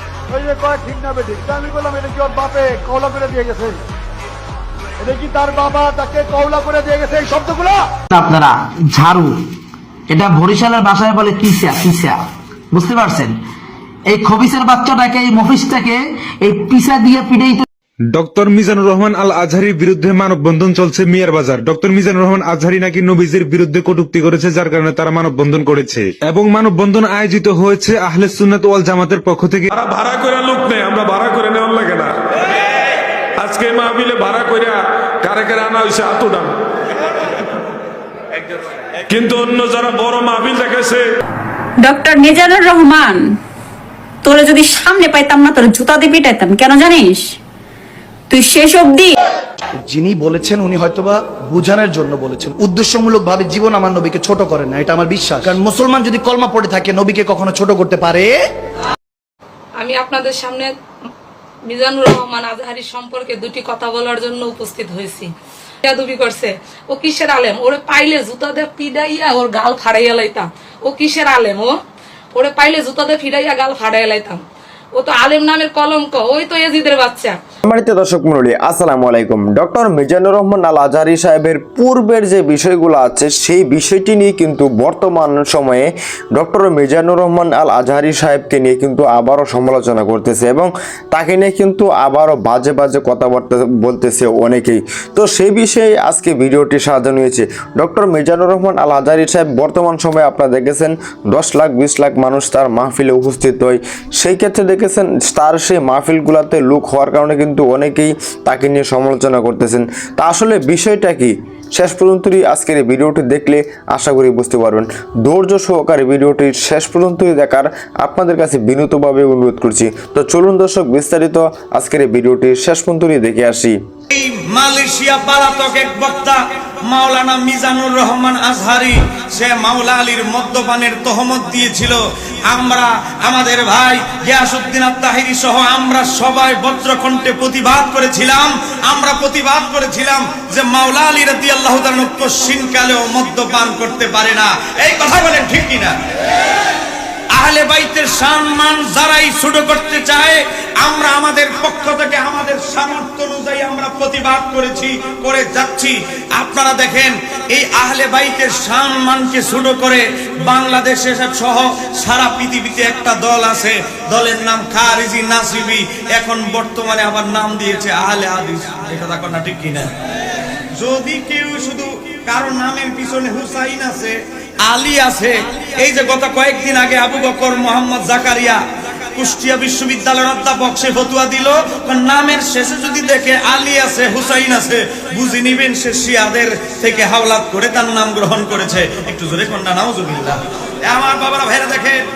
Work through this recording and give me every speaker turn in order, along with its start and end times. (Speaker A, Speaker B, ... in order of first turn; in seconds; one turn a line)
Speaker A: 0.3-3.8
Speaker A: 5.0-7.8
Speaker B: 8.1-9.4
Speaker B: 10.1-12.2
Speaker B: 12.7-13.4
Speaker B: 14.1-17.6
Speaker C: 18.1-29.7
Speaker D: 29.8-32.1
Speaker D: 33.4-36.5
Speaker D: 39.1-41.0
Speaker E: 41.8-43.3
Speaker E: 44.2-47.3
Speaker E: 48.3-49.1
Speaker F: 49.9-58.3
Speaker G: 59.8-60.7
Speaker G: 61.7-65.3
Speaker G: 65.8-71.8
Speaker G: 72.3-74.4
Speaker G: 75.0-77.4
Speaker H: 77.7-123.8
Speaker I: 124.1-145.9
Speaker I: 147.3-169.9
Speaker I: 170.8-178.6
Speaker I: 179.2-192.0